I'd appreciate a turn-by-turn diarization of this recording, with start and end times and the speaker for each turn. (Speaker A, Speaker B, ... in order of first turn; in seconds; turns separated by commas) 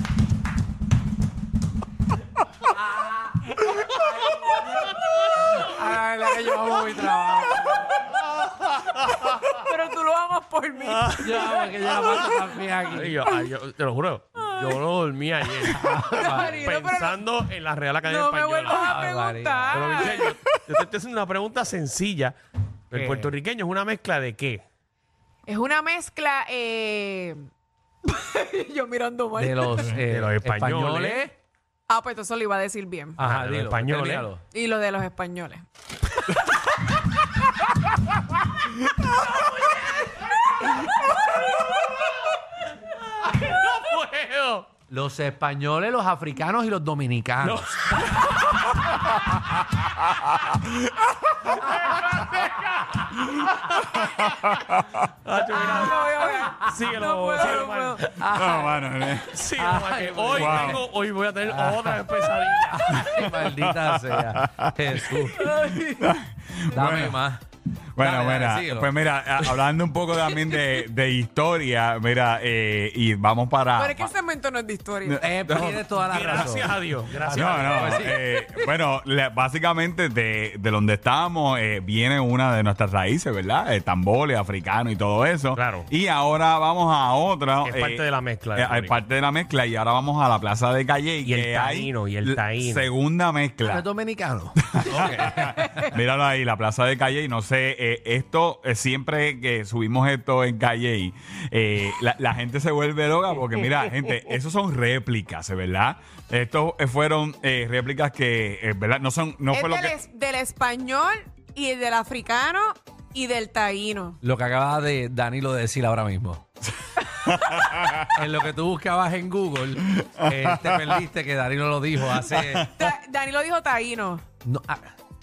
Speaker A: 5.5-7.8, Speaker B: 8.8-9.5, Speaker C: 9.7-11.7, Speaker B: 10.8-12.4, Speaker A: 11.2-13.2, Speaker B: 12.9-18.9, Speaker A: 15.7-16.6, Speaker C: 16.1-17.2, Speaker C: 18.1-20.3, Speaker A: 18.7-20.0, Speaker B: 19.7-22.4, Speaker B: 22.9-24.6, Speaker A: 22.9-23.3, Speaker C: 25.5-27.5, Speaker C: 28.1-29.9, Speaker A: 29.4-31.3, Speaker B: 30.1-31.3, Speaker C: 31.9-33.2, Speaker A: 33.2-34.4, Speaker B: 33.2-34.3, Speaker C: 34.5-35.6, Speaker B: 43.1-44.7, Speaker A: 44.9-47.7, Speaker B: 47.4-48.8, Speaker D: 50.1-51.6, Speaker B: 51.6-54.6, Speaker D: 53.3-55.0, Speaker B: 55.2-58.0, Speaker C: 55.5-58.1, Speaker A: 58.0-58.8, Speaker D: 58.2-59.4, Speaker B: 59.3-63.1, Speaker A: 59.6-60.8, Speaker D: 60.3-60.8, Speaker A: 61.5-66.0, Speaker D: 62.9-67.2, Speaker A: 66.7-67.4, Speaker D: 68.0-74.1, Speaker A: 68.0-68.9, Speaker C: 73.8-75.3, Speaker D: 75.0-76.5, Speaker A: 75.2-78.4, Speaker B: 76.1-78.1, Speaker D: 77.3-93.9, Speaker B: 85.5-85.9, Speaker B: 87.6-89.0, Speaker B: 91.2-92.9, Speaker A: 93.7-95.5, Speaker D: 94.7-110.0, Speaker C: 109.5-114.2, Speaker A: 114.2-116.4, Speaker D: 117.3-118.1, Speaker A: 118.0-122.7, Speaker D: 119.9-121.0, Speaker D: 122.2-122.8, Speaker C: 122.8-124.2, Speaker A: 124.5-124.9